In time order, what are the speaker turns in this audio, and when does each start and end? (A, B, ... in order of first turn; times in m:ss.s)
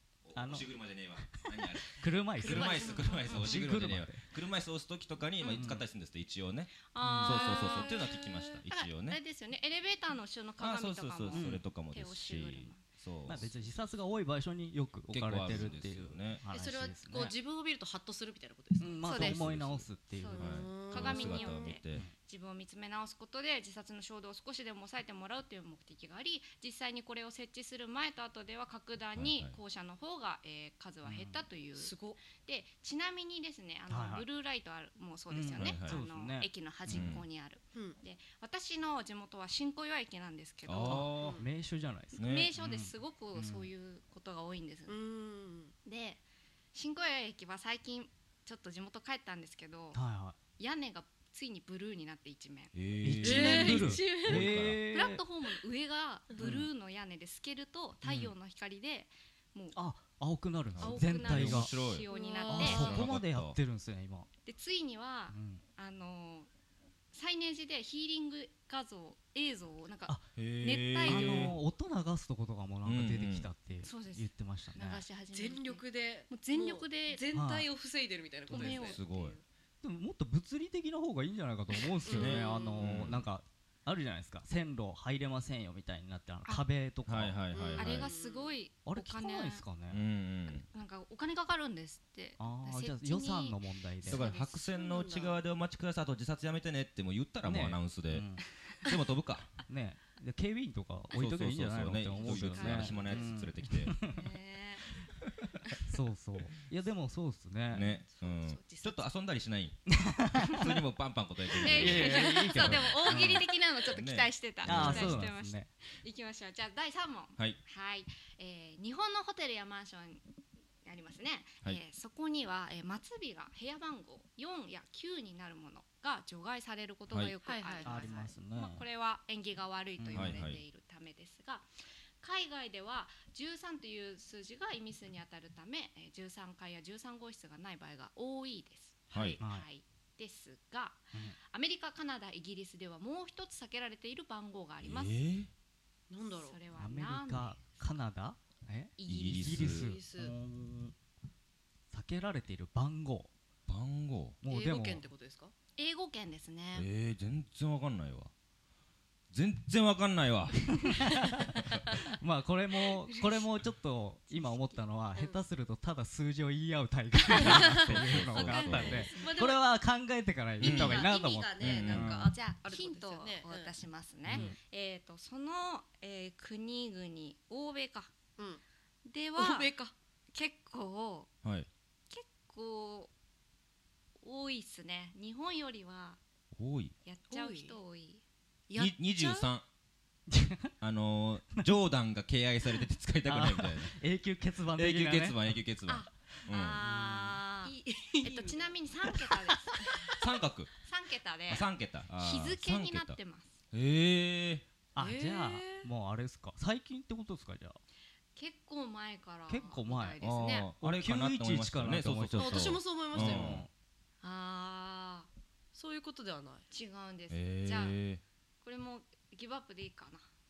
0:00.2-0:09.2 A
0:00.3-0:04.2 B
0:02.4-0:03.6 C
0:05.4-0:05.7 C
0:05.6-0:05.8 B
0:06.9-0:12.8 C
0:07.0-0:07.6 B
0:07.6-0:08.0 D
0:10.6-0:13.5 A
0:11.3-0:11.6 B
0:13.2-0:17.3 B
0:15.1-0:16.4 A
0:16.5-0:19.1 D
0:18.8-0:20.6 B
0:19.0-0:19.4 C
0:19.1-0:22.0 A
0:20.2-0:41.1 C
0:20.4-0:21.8 D
0:29.2-0:29.6 A
0:31.0-0:31.4 B
0:31.8-0:32.2 D
0:33.9-0:34.2 B
0:35.3-0:37.2 B
0:35.6-0:36.0 A
0:36.9-0:37.2 A
0:37.7-0:38.0 D
0:40.6-0:41.4 A
0:40.8-0:43.7 B
0:41.2-0:41.4 D
0:42.2-0:42.5 A
0:42.2-0:45.0 C
0:44.9-0:45.7 D
0:45.8-0:46.2 C
0:46.7-0:50.0 C
0:49.9-0:50.4 B
0:50.6-0:52.7 C
0:52.7-0:54.8 A
0:53.0-0:55.2 B
0:53.2-0:54.5 D
0:53.3-0:59.8 C
0:56.4-0:56.7 B
0:58.0-0:58.3 B
0:59.7-1:01.7 B
1:00.7-1:03.6 A
1:00.8-1:03.1 C
1:02.1-1:03.0 D
1:02.5-1:04.3 B
1:04.4-1:06.5 C
1:05.3-1:05.6 B
1:07.1-1:11.6 C
1:10.4-1:11.6 A
1:11.0-1:15.0 B
1:12.8-1:13.5 A
1:13.8-1:17.2 C
1:15.3-1:19.2 D
1:17.3-1:17.7 B
1:18.5-1:19.4 C
1:18.5-1:19.4 A
1:19.8-1:27.4 B
1:22.0-1:22.9 D
1:22.1-1:23.2 A
1:27.1-1:28.1 A
1:27.5-1:28.6 D
1:27.8-1:29.6 C
1:28.8-1:30.0 B
1:29.9-1:30.6 A
1:30.5-1:33.6 C
1:32.4-1:34.3 B
1:34.0-1:38.3 A
1:34.1-1:35.4 D
1:37.4-1:38.4 B
1:38.8-1:39.5 A
1:39.7-1:44.2 B
1:41.1-1:43.9 A
1:42.1-1:43.4 C
1:44.0-1:44.9 C
1:45.9-1:47.8 B
1:47.7-1:55.3 A
1:48.1-1:49.0 C
1:49.9-1:50.6 B
1:51.5-2:00.2 C
1:51.6-1:53.4 B
1:54.6-1:55.7 B
2:00.8-2:11.7 C
2:07.1-2:07.3 A
2:07.4-2:08.1 D
2:07.8-2:08.8 B
2:10.0-2:10.4 B
2:10.1-2:10.6 A
2:12.2-2:25.1 C
2:19.1-2:19.4 A
2:19.4-2:19.6 B
2:24.8-2:25.5 A
2:26.1-2:26.6 D
2:26.3-2:27.8 C
2:26.7-2:30.9 B
2:29.0-2:29.6 C
2:29.0-2:29.9 A
2:29.6-2:30.3 D
2:31.9-2:33.3 B
2:33.7-2:34.4 A
2:34.4-2:35.1 B
2:34.4-2:35.5 D
2:35.8-2:36.9 C
2:36.7-2:38.3 A
2:39.3-2:41.0 A
2:40.8-2:52.3 B
2:44.3-2:44.8 C
2:45.2-2:45.4 D
2:47.3-2:49.1 A
2:47.4-2:47.8 D
2:48.2-2:49.4 C
2:48.5-2:49.6 D
2:50.6-2:52.1 A
2:50.6-2:53.7 D
2:51.6-2:58.1 C
2:54.3-2:54.6 B
2:59.0-2:59.7 C
2:59.4-2:59.9 D
3:00.3-3:01.3 C
3:01.4-3:01.7 A
3:02.1-3:03.1 C
3:04.2-3:06.2 C
3:06.5-3:06.9 A
3:07.0-3:08.2 C
3:07.3-3:07.8 D
3:08.7-3:09.5 D
3:08.7-3:09.6 A
3:10.3-3:10.7 B
3:10.8-3:13.9 A
3:13.2-3:15.6 B
3:14.8-3:16.8 A
3:15.8-3:20.2 C
3:16.8-3:17.4 B
3:17.6-3:18.7 D
3:19.1-3:19.7 B
3:20.2-3:20.7 A
3:20.8-3:23.6 C
3:21.5-3:23.2 A
3:23.7-3:24.6 A
3:24.9-3:27.8 B
3:25.0-3:25.9 D
3:28.4-3:30.7 C
3:29.5-3:30.2 B
3:30.2-3:33.6 A
3:30.8-3:33.7 B
3:32.3-3:33.6 D
3:34.2-3:35.3 C
3:35.7-3:36.6 D
3:36.7-3:38.0 C
3:37.3-3:38.2 A
3:38.6-3:40.2 C